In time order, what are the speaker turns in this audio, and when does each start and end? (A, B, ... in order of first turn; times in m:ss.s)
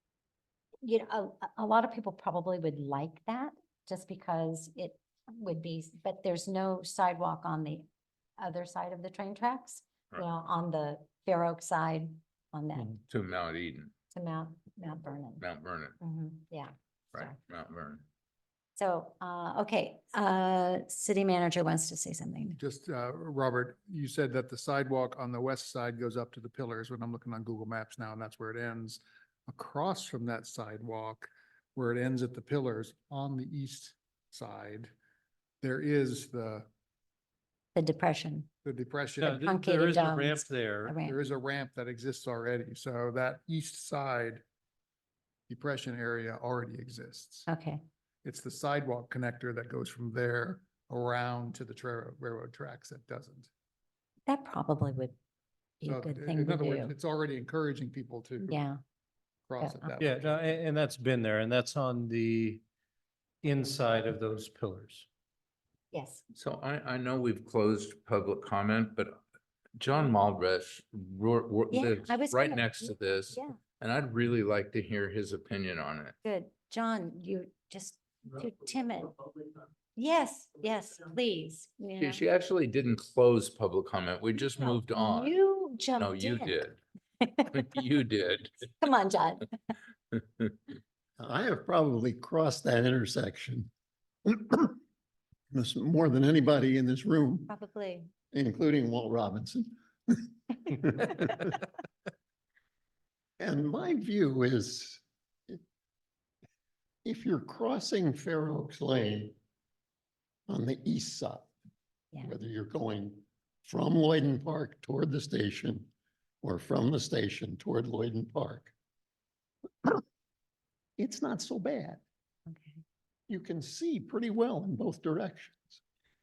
0:00.8-0:07.8 A
0:08.4-0:13.0 A
0:13.0-0:13.9 B
0:14.1-0:15.4 A
0:15.4-0:16.0 B
0:16.0-0:17.4 A
0:17.1-0:18.0 B
0:18.8-0:22.6 A
0:22.6-0:34.9 C
0:35.6-0:36.7 C
0:37.8-0:38.5 A
0:38.6-0:39.5 C
0:39.2-0:41.0 D
0:39.4-0:41.2 A
0:41.0-0:44.4 C
0:45.5-0:47.5 C
0:47.5-0:47.8 A
0:48.2-0:53.5 C
0:54.3-0:55.2 A
0:55.8-0:56.9 A
0:55.9-0:58.6 C
0:58.5-0:58.8 A
0:59.5-1:00.2 C
0:59.6-1:00.0 A
1:00.0-1:02.6 D
1:03.4-1:05.1 D
1:05.9-1:06.2 A
1:06.3-1:09.2 B
1:09.8-1:16.2 B
1:11.7-1:13.6 A
1:16.2-1:19.2 A
1:20.0-1:22.2 A
1:22.0-1:25.4 B
1:24.5-1:26.6 A
1:26.0-1:26.8 B
1:27.2-1:27.7 A
1:27.5-1:28.6 B
1:28.8-1:29.6 A
1:31.2-1:33.7 E
1:34.2-1:34.8 E
1:35.5-1:37.5 E
1:37.5-1:38.1 A
1:38.3-1:41.6 E
1:43.4-1:45.6 E
1:47.0-1:49.4 E
1:50.5-1:51.5 E
1:52.2-1:55.9 E
1:56.4-1:58.7 E
2:01.0-2:02.0 E
2:02.5-2:02.8 A
2:03.3-2:05.8 E